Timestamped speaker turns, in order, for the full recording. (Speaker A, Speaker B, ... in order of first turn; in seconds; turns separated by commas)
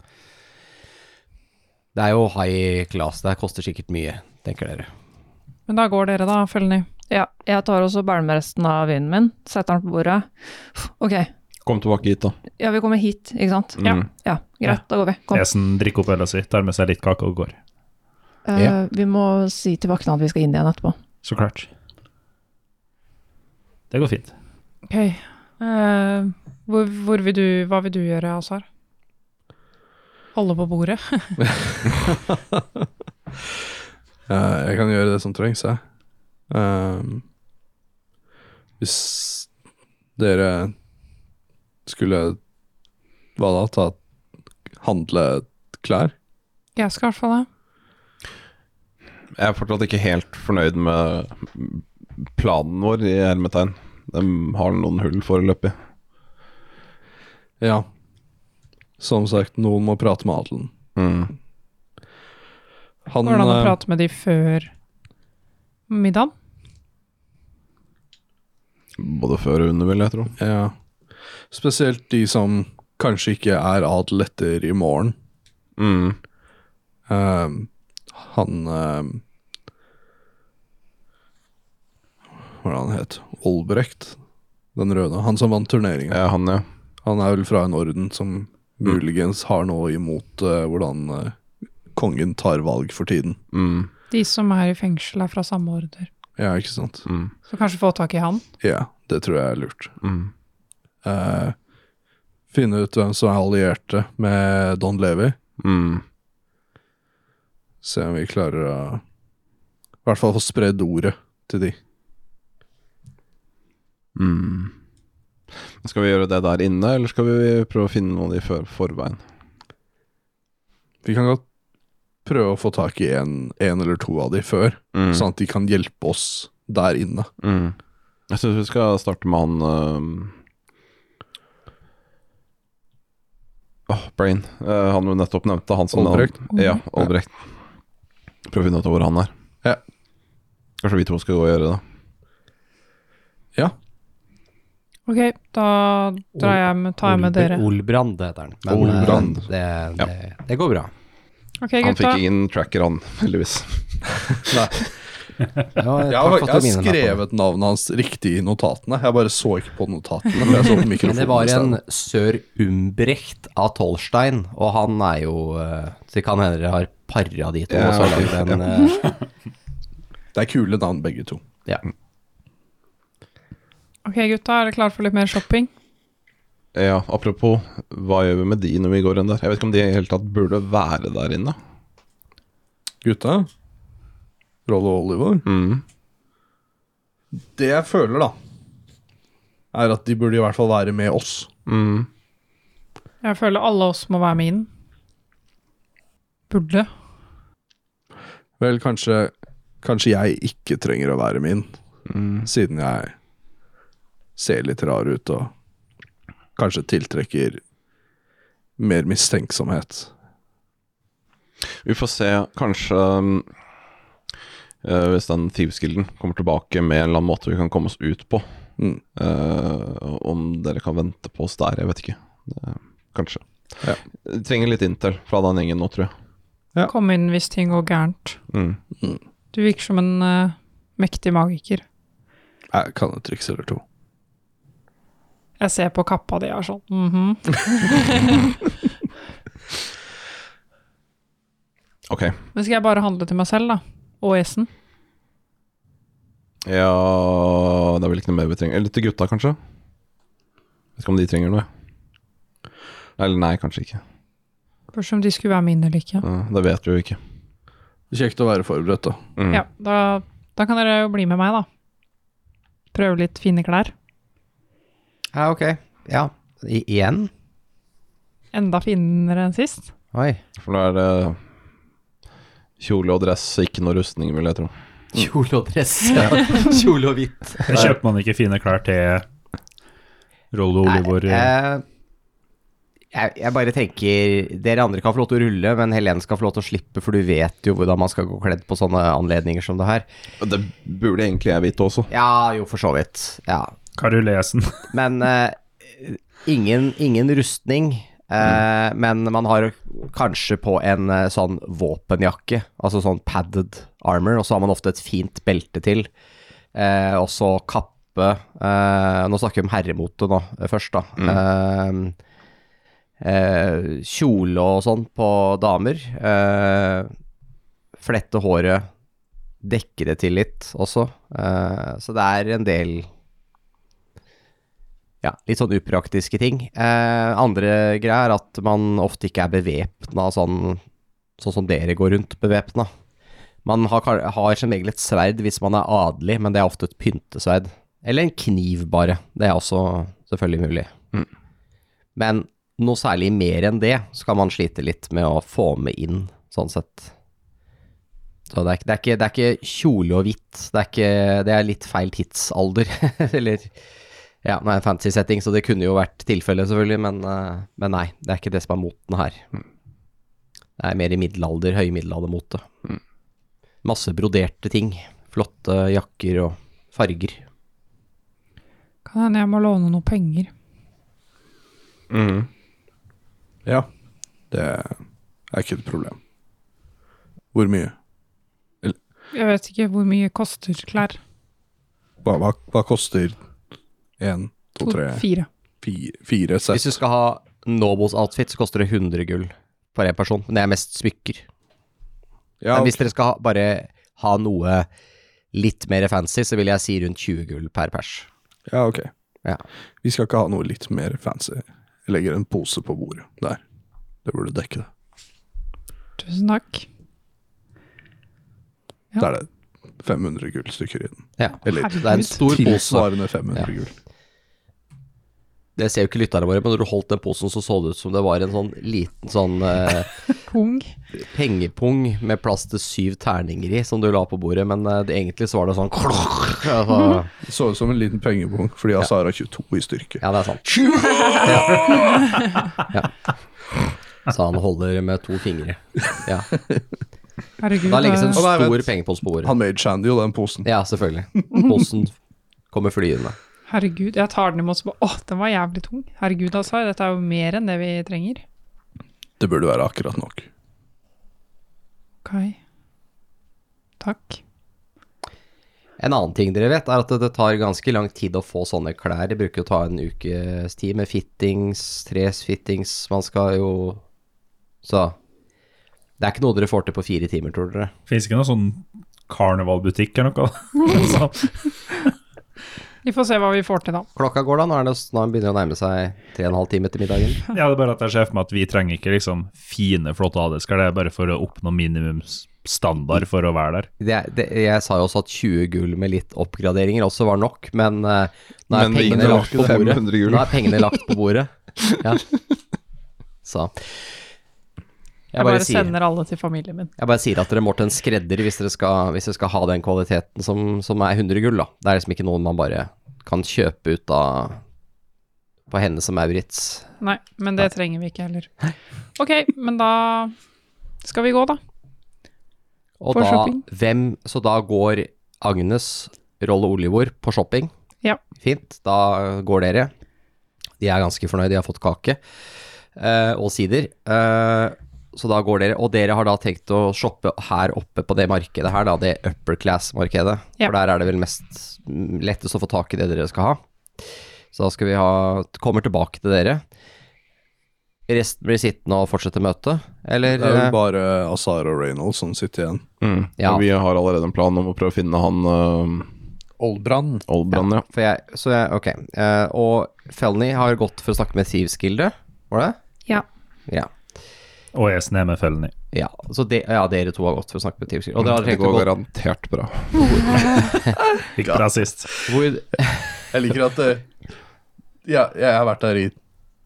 Speaker A: 1.9-4.9, Speaker B: 5.7-6.9, Speaker C: 7.1-11.3, Speaker D: 11.6-12.3, Speaker C: 12.6-15.4, Speaker D: 13.8-14.1, Speaker E: 15.3-17.6, Speaker C: 18.5-21.0, Speaker E: 21.2-21.7, Speaker E: 23.9-24.3, Speaker B: 24.9-28.6, Speaker B: 30.3-31.4, Speaker F: 31.4-32.6, Speaker F: 34.3-35.8, Speaker F: 36.5-37.2, Speaker F: 38.8-39.5, Speaker F: 40.2-40.7, Speaker F: 41.9-42.4, Speaker F: 43.4-44.0, Speaker F: 44.8-46.1, Speaker B: 46.8-47.5, Speaker D: 49.4-55.8, Speaker F: 57.6-57.9, Speaker F: 59.0-60.7, Speaker D: 61.0-61.3, Speaker F: 63.1-63.8, Speaker B: 63.2-64.7, Speaker B: 65.9-66.3, Speaker D: 69.0-70.3, Speaker F: 70.4-70.7, Speaker F: 71.5-75.2, Speaker D: 75.8-76.2, Speaker F: 77.1-79.2, Speaker F: 82.6-84.2, Speaker F: 84.7-86.2, Speaker D: 86.1-86.7, Speaker F: 87.0-91.3, Speaker F: 91.9-93.4, Speaker D: 93.5-93.9, Speaker B: 94.1-96.1, Speaker F: 96.4-97.1, Speaker D: 97.1-97.3, Speaker B: 97.5-98.4, Speaker F: 98.6-99.9, Speaker D: 100.0-100.3, Speaker F: 101.0-101.5, Speaker F: 102.5-105.4, Speaker D: 105.6-106.0, Speaker F: 107.8-109.0, Speaker F: 110.0-111.8, Speaker D: 114.2-114.7, Speaker D: 115.8-119.2, Speaker F: 121.0-121.4, Speaker F: 122.2-127.3, Speaker D: 124.9-125.3, Speaker D: 127.4-127.8, Speaker D: 128.3-130.3, Speaker D: 133.9-137.4, Speaker F: 135.9-136.3, Speaker B: 136.5-136.8, Speaker D: 138.5-139.3, Speaker D: 140.8-141.8, Speaker B: 145.1-147.6, Speaker A: 147.1-150.9, Speaker F: 148.7-149.4, Speaker B: 151.6-152.2, Speaker D: 151.8-154.7, Speaker F: 154.4-154.7, Speaker A: 155.8-157.2, Speaker F: 156.1-161.8, Speaker D: 160.4-160.6, Speaker A: 161.0-169.1, Speaker D: 167.7-168.6, Speaker F: 170.3-171.4, Speaker B: 174.1-175.7, Speaker D: 176.7-181.6, Speaker F: 183.0-183.5, Speaker F: 184.7-185.4, Speaker D: 185.4-185.8, Speaker F: 187.3-188.3, Speaker F: 189.7-191.5, Speaker D: 191.7-192.1, Speaker B: 193.2-194.7, Speaker B: 196.5-196.9, Speaker F: 198.6-201.7, Speaker D: 202.1-202.5, Speaker F: 202.4-203.1, Speaker F: 204.4-205.5, Speaker F: 206.6-207.6, Speaker F: 208.8-210.1, Speaker D: 211.8-213.5, Speaker D: 214.8-218.5, Speaker D: 219.2-226.1, Speaker B: 226.9-228.4, Speaker D: 228.5-228.8, Speaker B: 229.5-231.8, Speaker F: 232.7-233.8, Speaker B: 235.6-238.5, Speaker D: 242.1-242.3, Speaker B: 242.5-244.7, Speaker D: 246.6-249.6, Speaker D: 251.0-251.7, Speaker D: 253.2-254.0, Speaker B: 254.9-256.2, Speaker D: 256.2-257.2, Speaker F: 258.1-259.2, Speaker D: 259.4-259.6, Speaker B: 259.5-261.6, Speaker B: 262.9-263.9, Speaker A: 265.3-267.3, Speaker B: 268.5-269.9, Speaker A: 270.1-270.4, Speaker D: 270.6-271.4, Speaker D: 272.8-274.7, Speaker A: 275.1-277.9, Speaker E: 277.7-279.2, Speaker E: 280.5-281.5, Speaker A: 280.8-281.8, Speaker A: 283.1-290.0, Speaker D: 290.4-292.1, Speaker A: 292.1-293.7, Speaker E: 293.9-294.9, Speaker A: 294.9-306.1, Speaker A: 306.7-312.1, Speaker A: 313.2-317.1, Speaker A: 318.0-318.9, Speaker A: 319.6-323.1, Speaker A: 325.2-330.8, Speaker A: 331.4-332.9, Speaker A: 333.6-340.9, Speaker A: 342.1-347.1, Speaker A: 348.5-353.7, Speaker A: 354.4-359.4, Speaker A: 360.8-362.6, Speaker A: 363.8-367.4, Speaker B: 369.1-370.5, Speaker D: 372.1-372.5, Speaker F: 374.5-375.0, Speaker F: 375.5-376.2, Speaker F: 377.5-377.9, Speaker B: 379.3-381.2, Speaker F: 382.2-383.4, Speaker F: 384.2-385.2, Speaker B: 384.8-385.5, Speaker F: 385.8-387.0, Speaker A: 386.7-391.4, Speaker F: 392.6-393.0, Speaker A: 392.7-394.9, Speaker A: 395.5-398.3, Speaker F: 398.7-399.1, Speaker F: 400.0-403.6, Speaker F: 404.2-404.9, Speaker B: 406.2-406.9, Speaker F: 409.2-409.5, Speaker F: 410.0-413.9, Speaker A: 411.4-413.7, Speaker B: 411.6-412.5, Speaker A: 415.8-420.1, Speaker B: 420.4-420.9, Speaker A: 421.1-427.3, Speaker F: 427.4-432.0, Speaker A: 430.2-430.6, Speaker A: 431.4-431.9, Speaker A: 434.3-436.5, Speaker B: 437.6-438.4, Speaker A: 437.8-439.5, Speaker F: 438.3-438.9, Speaker F: 439.4-440.7, Speaker A: 440.6-442.1, Speaker A: 442.7-443.4, Speaker B: 443.7-448.4, Speaker F: 449.4-450.5, Speaker B: 452.2-452.6, Speaker B: 454.0-454.4, Speaker A: 456.0-464.0, Speaker A: 464.8-465.1, Speaker A: 466.2-467.9, Speaker E: 468.1-472.0, Speaker B: 473.0-474.1, Speaker A: 474.1-477.4, Speaker E: 477.5-483.9, Speaker A: 484.0-492.2, Speaker D: 488.7-490.9, Speaker F: 489.1-490.0, Speaker A: 493.4-494.0, Speaker A: 495.3-495.9, Speaker B: 495.3-496.9, Speaker A: 497.0-504.6, Speaker A: 505.7-506.9, Speaker B: 507.0-508.5, Speaker B: 509.2-510.3, Speaker B: 511.0-511.6, Speaker A: 513.0-517.7, Speaker B: 513.1-513.6, Speaker A: 518.4-519.9, Speaker A: 520.8-522.2, Speaker A: 523.0-533.6, Speaker A: 534.5-536.6, Speaker A: 538.1-540.8, Speaker F: 540.3-542.8, Speaker D: 543.0-546.1, Speaker A: 543.4-543.6, Speaker F: 546.6-547.2, Speaker D: 547.3-547.9, Speaker A: 547.5-552.8, Speaker E: 554.7-555.7, Speaker A: 555.9-558.9, Speaker D: 558.2-560.6, Speaker E: 561.4-562.1, Speaker A: 562.3-563.2, Speaker F: 563.3-564.0, Speaker F: 565.0-566.1